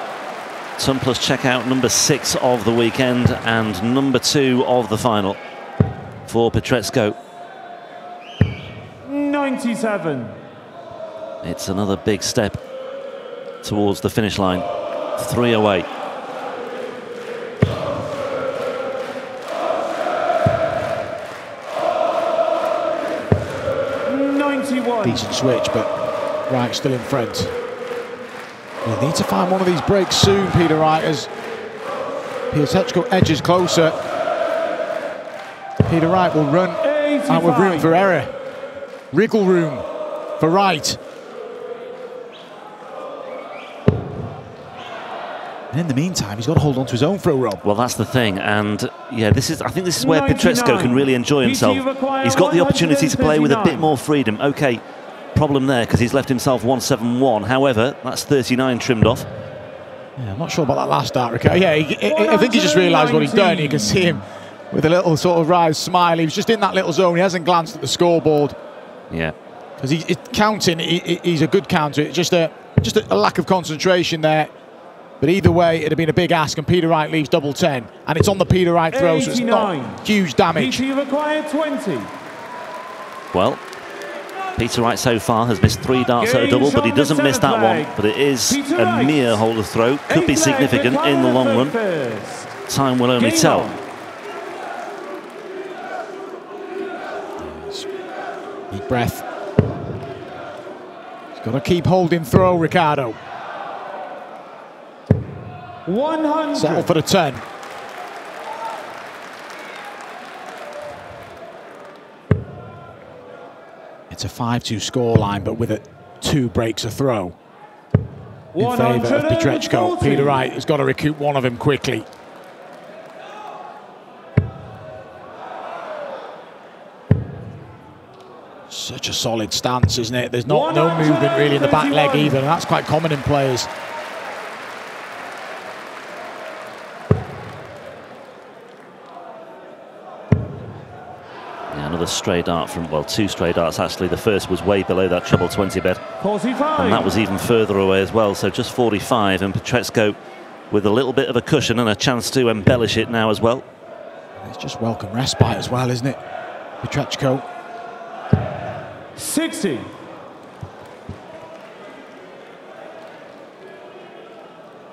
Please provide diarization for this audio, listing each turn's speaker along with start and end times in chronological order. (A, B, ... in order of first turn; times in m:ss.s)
0:00.8-0:05.4 A
0:06.3-0:07.2 A
0:09.0-0:10.4 B
0:11.4-0:12.6 A
0:13.6-0:14.6 A
0:15.2-0:15.9 A
0:24.1-0:25.3 B
0:25.0-0:25.9 C
0:26.5-0:27.5 C
0:28.8-0:31.3 C
0:32.5-0:34.0 C
0:35.8-0:38.3 C
0:36.8-0:37.9 B
0:39.1-0:39.8 C
0:40.4-0:41.0 C
0:45.7-0:47.6 C
0:47.6-0:54.8 A
0:50.0-0:53.9 B
0:55.4-0:59.3 A
1:00.2-1:08.6 C
1:02.1-1:04.2 B
1:09.8-1:14.5 C
1:15.2-1:20.8 C
1:18.9-1:20.0 B
1:20.6-1:22.1 B
1:23.3-1:23.6 A
1:24.6-1:31.8 A
1:26.2-1:28.0 B
1:28.5-1:29.4 B
1:30.1-1:32.5 B
1:32.7-1:33.7 A
1:33.2-1:33.8 B
1:37.4-1:37.9 C
1:38.7-1:39.2 C
1:41.4-1:43.2 C
1:45.9-1:46.9 B
1:46.6-1:47.4 C
1:54.1-1:57.4 C
1:58.5-2:00.4 B
1:58.6-2:02.1 C
2:08.7-2:13.7 C
2:10.4-2:12.4 B
2:21.7-2:26.0 A
2:26.2-2:27.1 B
2:26.8-2:30.2 A
2:30.7-2:33.6 A
2:34.4-2:36.2 C
2:36.8-2:37.4 C
2:39.2-2:39.9 B